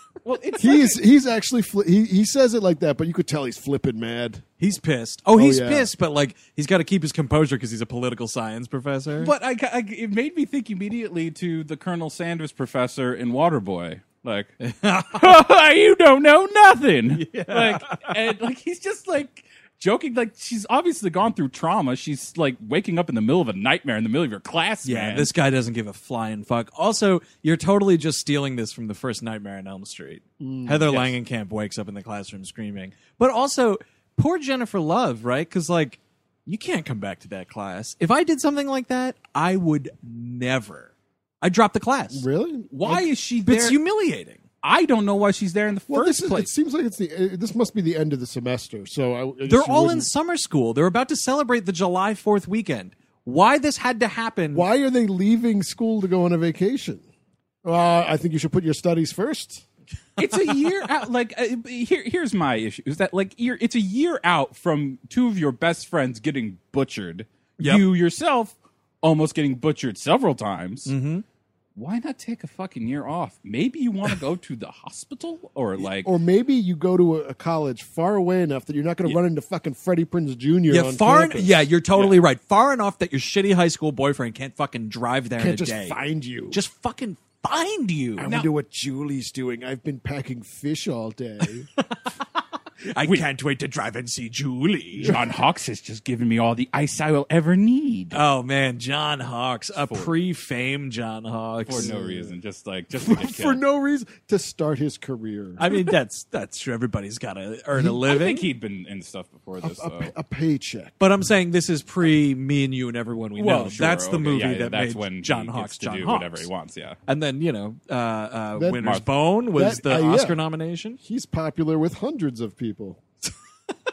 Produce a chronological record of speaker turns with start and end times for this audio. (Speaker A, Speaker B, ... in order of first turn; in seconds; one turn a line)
Speaker A: 0.2-1.0
Speaker B: 0.6-4.4
Speaker C: 4.6-9.3
Speaker B: 5.3-5.9
Speaker A: 9.2-14.5
Speaker C: 14.6-15.3
Speaker A: 15.1-25.3
Speaker C: 17.1-18.1
Speaker C: 24.8-42.2
Speaker B: 30.4-31.1
Speaker B: 42.1-43.0
Speaker A: 42.7-43.8
Speaker C: 43.4-44.4
Speaker A: 44.6-46.5
Speaker B: 45.9-50.1
Speaker C: 49.5-54.6
Speaker B: 54.5-57.0
Speaker B: 57.6-59.6
Speaker A: 60.2-70.9
Speaker C: 70.8-71.2
Speaker A: 71.8-76.1
Speaker B: 75.8-81.7
Speaker C: 80.7-86.0
Speaker A: 81.9-82.2
Speaker B: 85.4-86.6
Speaker C: 86.5-88.3
Speaker B: 88.2-91.7
Speaker C: 92.9-95.2
Speaker A: 95.0-98.2
Speaker C: 98.1-101.9
Speaker A: 99.8-100.1
Speaker A: 101.6-103.6
Speaker B: 101.7-102.3
Speaker B: 102.9-105.7
Speaker C: 105.6-108.5
Speaker B: 107.7-108.0
Speaker A: 108.1-110.1
Speaker B: 109.6-111.0
Speaker C: 111.0-116.5
Speaker A: 113.4-117.0
Speaker C: 117.1-121.0
Speaker B: 118.5-120.4
Speaker B: 121.0-123.0